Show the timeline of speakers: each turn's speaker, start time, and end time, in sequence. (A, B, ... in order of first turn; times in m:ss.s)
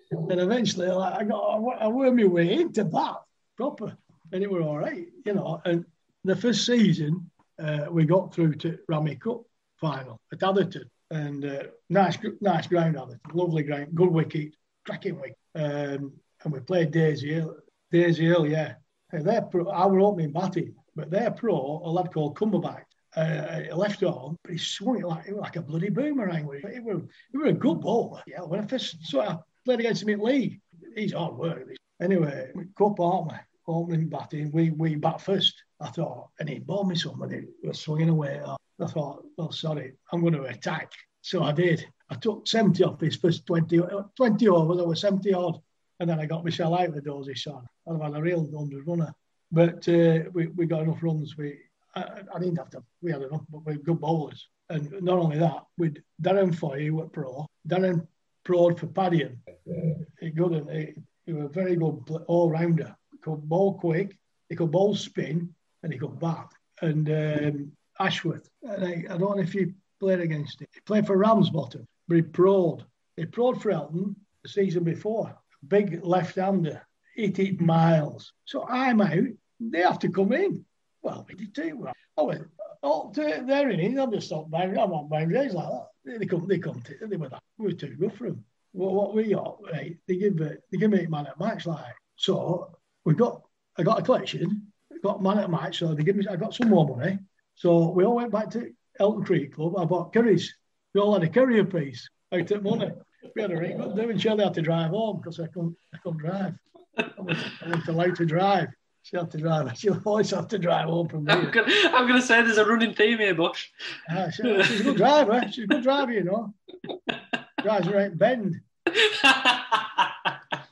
0:00.2-1:46.6 A
1:47.2-1:51.6 A
1:51.3-1:53.7 B
1:54.1-1:56.6 A
1:54.4-1:55.0 B
1:57.6-1:58.6 A
1:59.0-2:00.3 B